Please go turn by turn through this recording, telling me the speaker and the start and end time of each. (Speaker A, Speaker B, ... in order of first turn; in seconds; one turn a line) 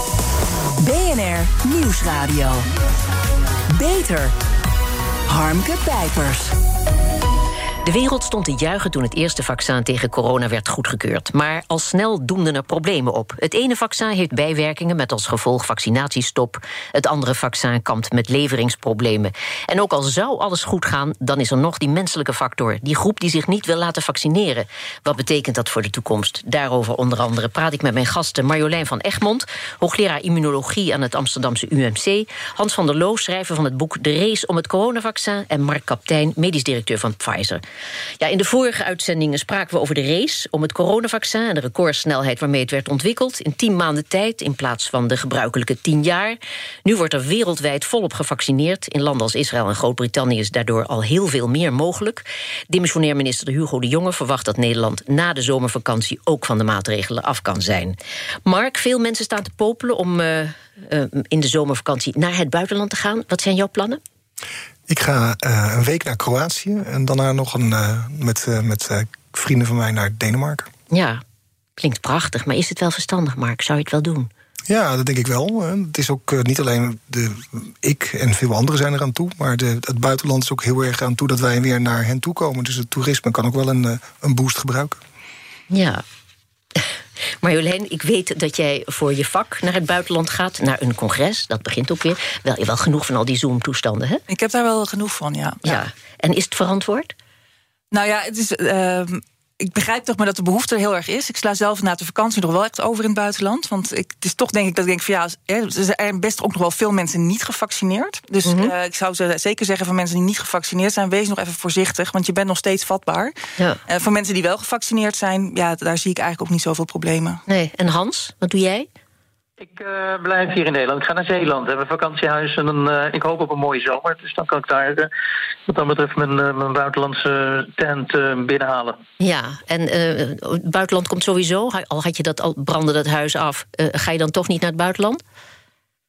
Speaker A: 0.8-2.6
Speaker B: 1.0-2.5
Speaker A: 3.8-4.3
Speaker A: 5.3-6.5
Speaker B: 7.8-37.6
Speaker B: 38.2-64.0
Speaker C: 64.9-70.7
Speaker B: 70.9-71.2
Speaker B: 71.8-74.3
Speaker C: 74.7-85.0
Speaker B: 85.7-86.0
Speaker B: 87.4-94.2
Speaker D: 94.3-95.8
Speaker B: 95.7-97.1
Speaker D: 97.9-113.3
Speaker B: 108.5-108.7
Speaker D: 113.9-117.4
Speaker B: 117.5-118.9
Speaker E: 119.6-125.1
Speaker E: 125.7-129.0
Speaker B: 129.2-135.2